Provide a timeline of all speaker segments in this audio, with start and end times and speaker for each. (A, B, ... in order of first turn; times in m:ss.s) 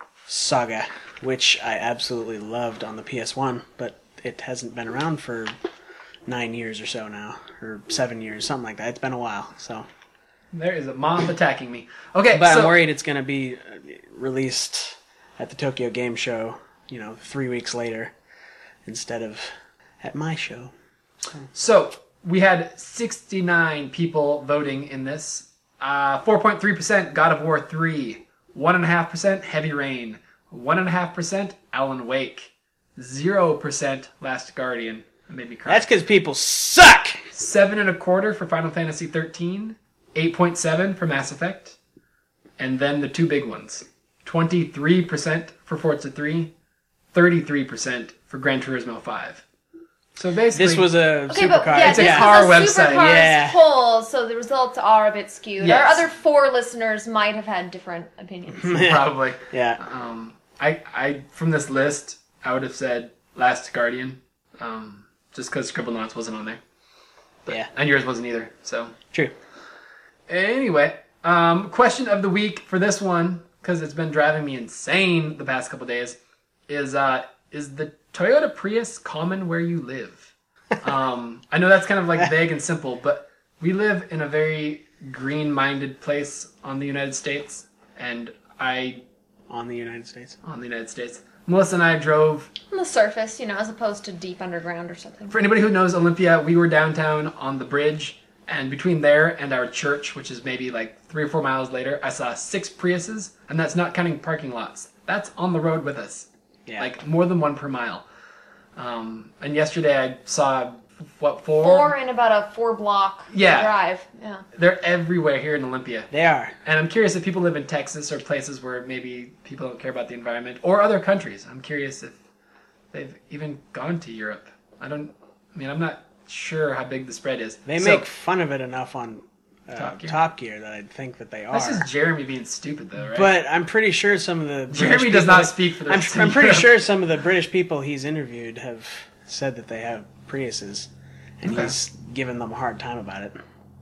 0:00.3-0:05.5 A
0:06.3-0:09.9 A
0:10.5-0:12.8 B
0:12.3-0:18.1 A
0:18.8-0:20.7 A
0:21.5-0:35.8 B
0:35.7-0:37.2 A
0:37.3-0:41.8 B
0:42.6-0:46.5 B
0:47.1-0:49.4 B
0:50.2-0:50.9 B
0:50.5-0:53.6 A
0:51.3-0:58.9 C
0:51.8-0:53.1 B
0:55.6-0:56.0 B
0:58.6-0:59.8 A
0:58.7-1:06.6 B
1:07.4-1:09.0 B
1:10.3-1:16.2 B
1:16.7-1:29.0 B
1:29.5-1:30.4 A
1:30.4-1:32.5 B
1:32.7-1:35.4 C
1:35.3-1:46.3 B
1:46.8-1:48.0 B
1:48.8-1:52.0 B
1:51.6-1:54.4 C
1:53.3-1:53.8 B
1:54.6-1:56.1 B
1:56.1-1:56.5 A
1:56.6-2:02.2 B
2:02.9-2:08.1 B
2:07.7-2:11.9 A
2:09.8-2:10.2 B
2:11.5-2:13.3 B
2:13.0-2:20.9 A
2:14.7-2:16.7 B
2:21.4-2:23.4 A
2:21.5-2:21.8 B